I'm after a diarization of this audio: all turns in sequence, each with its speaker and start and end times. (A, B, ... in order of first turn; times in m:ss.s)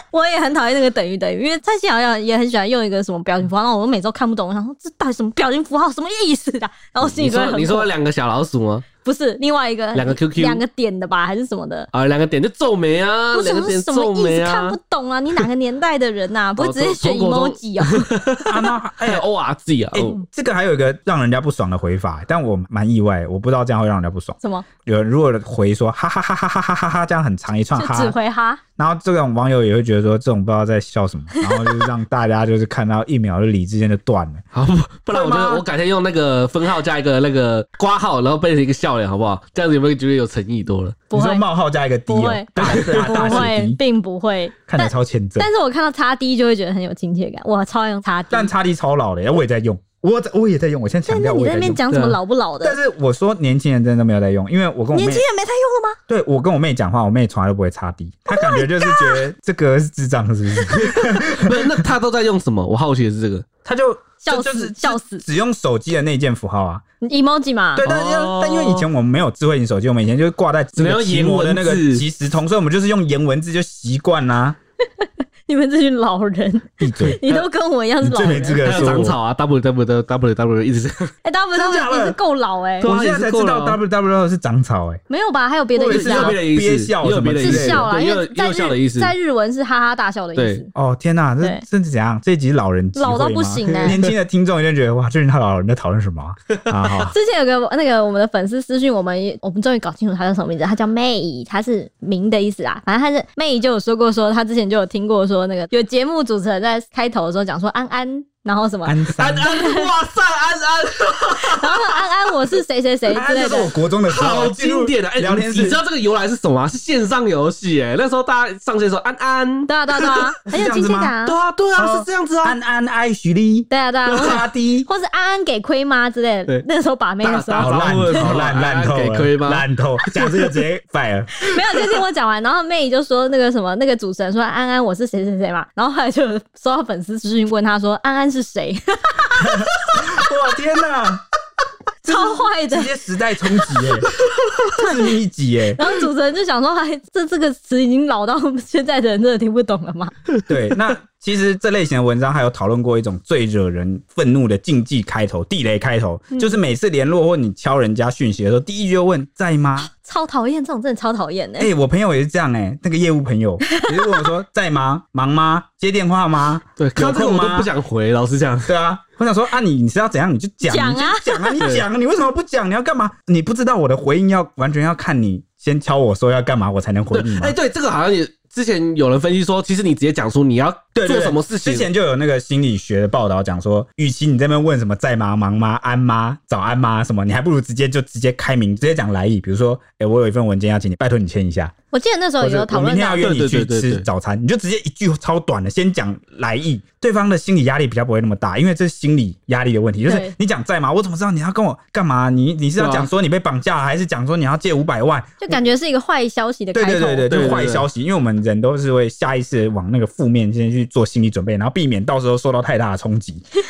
0:00.1-0:07.9 A
0:07.0-0:08.8 B
0:09.0-0:11.9 A
0:09.9-0:10.6 B
0:11.9-0:14.8 B
0:13.3-0:18.1 A
0:16.6-0:20.2 B
0:18.4-0:19.2 C
0:19.9-0:28.2 C
0:24.4-0:24.6 A
0:27.7-0:28.6 A
0:28.8-0:34.4 C
0:34.5-0:41.0 B
0:35.1-0:35.6 C
0:41.1-0:41.4 A
0:41.1-0:43.8 C
0:42.1-0:48.5 A
0:42.6-0:43.5 B
0:44.7-0:45.5 C
0:48.3-0:51.8 C
0:51.0-0:52.8 A
0:51.9-0:52.2 B
0:52.6-0:55.2 C
0:54.9-0:56.0 A
0:56.1-1:01.8 C
0:58.3-0:59.2 A
1:00.7-1:03.5 B
1:03.6-1:06.8 C
1:04.2-1:05.2 A
1:07.0-1:07.8 A
1:07.7-1:14.6 C
1:07.8-1:08.9 B
1:10.8-1:12.0 B
1:15.0-1:18.7 A
1:16.8-1:17.2 C
1:17.0-1:17.4 B
1:18.0-1:19.2 C
1:18.6-1:21.1 B
1:21.2-1:22.9 A
1:21.5-1:22.2 C
1:22.8-1:25.0 C
1:22.8-1:23.8 B
1:25.1-1:26.4 A
1:25.8-1:27.9 C
1:25.8-1:29.1 B
1:27.4-1:30.7 A
1:30.4-1:30.6 B
1:30.7-1:37.1 C
1:32.9-1:34.0 A
1:33.8-1:34.1 B
1:37.0-1:49.9 A
1:48.8-1:49.5 C
1:49.2-1:52.1 B
1:51.4-1:53.7 A
1:53.1-1:55.8 C
1:54.0-2:00.2 B
1:59.7-2:01.4 A
2:00.5-2:01.1 C
2:01.2-2:02.6 B
2:01.8-2:04.9 C
2:03.7-2:08.3 A
2:07.2-2:10.5 B
2:07.6-2:11.5 C
2:11.4-2:20.3 A
2:19.4-2:21.2 C
2:22.0-2:22.9 A
2:22.0-2:24.1 C
2:24.4-2:25.1 A
2:24.7-2:25.8 C
2:25.7-2:30.1 A
2:30.5-2:39.9 C
2:36.3-2:36.6 A
2:40.0-2:41.7 A
2:41.6-2:47.7 C
2:43.7-2:44.3 A
2:46.8-2:48.7 B
2:48.6-2:57.6 C
2:50.6-2:51.6 A
2:51.6-2:51.8 B
2:57.1-3:01.9 B
3:00.9-3:11.7 C
3:11.9-3:13.3 A
3:12.4-3:25.6 C
3:13.2-3:14.0 B
3:20.0-3:20.3 A
3:22.8-3:23.1 B
3:25.4-3:27.6 A
3:26.7-3:33.4 C
3:27.3-3:27.8 B